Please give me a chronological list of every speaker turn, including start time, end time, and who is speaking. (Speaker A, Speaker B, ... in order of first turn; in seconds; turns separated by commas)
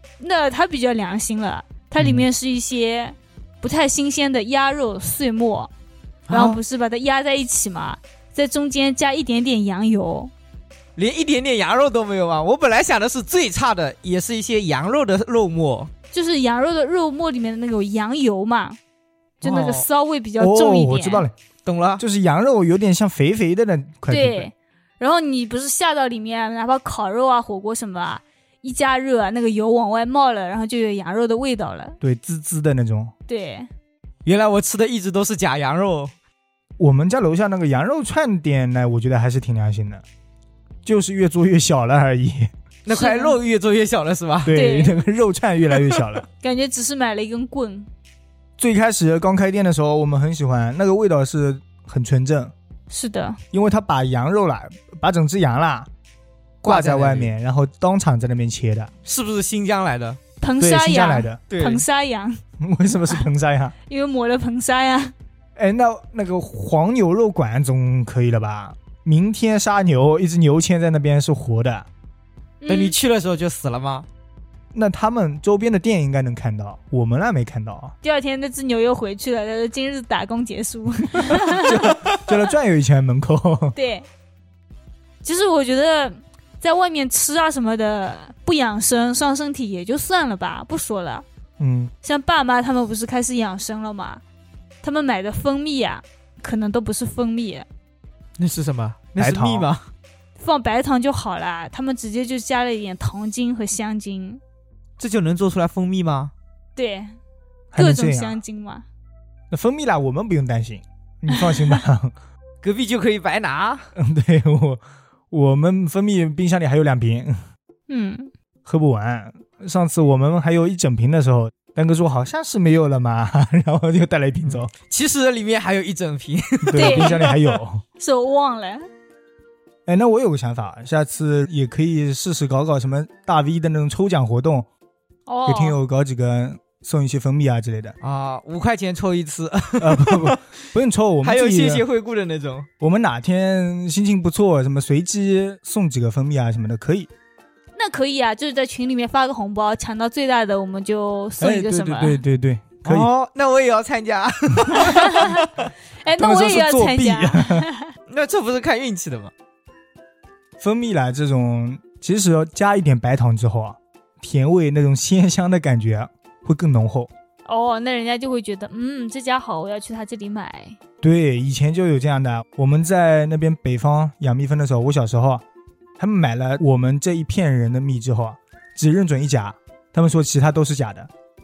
Speaker A: 0.2-5.7, Speaker B: 2.0-2.2, Speaker C: 6.3-6.6, Speaker A: 6.3-10.3, Speaker C: 10.9-15.9, Speaker A: 16.1-18.8, Speaker A: 19.4-21.2, Speaker C: 19.4-19.9, Speaker B: 20.4-21.3, Speaker C: 21.6-22.0, Speaker B: 22.0-24.5, Speaker A: 24.1-32.0, Speaker B: 32.0-33.1, Speaker A: 33.3-33.7, Speaker C: 34.2-36.1, Speaker B: 36.8-40.0, Speaker B: 40.8-42.5, Speaker C: 42.9-44.5, Speaker A: 42.9-43.4, Speaker B: 44.4-46.2, Speaker A: 44.5-45.0, Speaker C: 45.7-46.0, Speaker A: 46.4-47.9, Speaker B: 48.6-52.5, Speaker A: 52.9-53.4, Speaker B: 53.5-55.9, Speaker B: 56.6-58.9, Speaker C: 56.6-57.3, Speaker C: 59.0-60.2, Speaker A: 60.4-62.4, Speaker B: 60.6-61.4, Speaker C: 61.5-61.8, Speaker B: 62.6-63.7, Speaker A: 63.9-65.1, Speaker B: 65.5-71.9, Speaker A: 72.6-73.0, Speaker C: 72.7-74.1, Speaker B: 74.7-77.9, Speaker A: 78.0-81.9, Speaker B: 81.3-83.7, Speaker C: 81.9-82.2, Speaker A: 83.7-84.0, Speaker A: 85.2-91.2, Speaker B: 91.6-91.9, Speaker A: 92.0-94.2, Speaker A: 94.8-97.7, Speaker C: 98.4-99.9, Speaker B: 99.2-99.7, Speaker A: 100.4-104.4, Speaker C: 105.0-106.3, Speaker A: 106.8-107.2, Speaker B: 107.7-108.4, Speaker A: 107.7-108.8, Speaker B: 109.5-112.1, Speaker C: 112.6-113.9, Speaker B: 114.0-117.3, Speaker A: 117.9-118.3, Speaker B: 118.6-124.7, Speaker C: 124.4-127.6, Speaker B: 126.6-127.8, Speaker A: 126.7-127.2, Speaker A: 128.0-128.8, Speaker B: 129.8-134.7, Speaker A: 135.3-135.8, Speaker B: 135.4-137.9, Speaker C: 138.0-140.5, Speaker B: 139.8-141.8, Speaker C: 141.2-142.7, Speaker B: 142.8-147.1, Speaker A: 147.8-152.2, Speaker B: 151.4-153.1, Speaker C: 152.8-155.5, Speaker A: 154.8-155.4, Speaker A: 156.0-157.9, Speaker B: 156.2-157.7, Speaker C: 158.1-159.3, Speaker B: 160.6-167.1, Speaker A: 167.4-170.8, Speaker B: 171.0-175.4, Speaker B: 176.0-181.1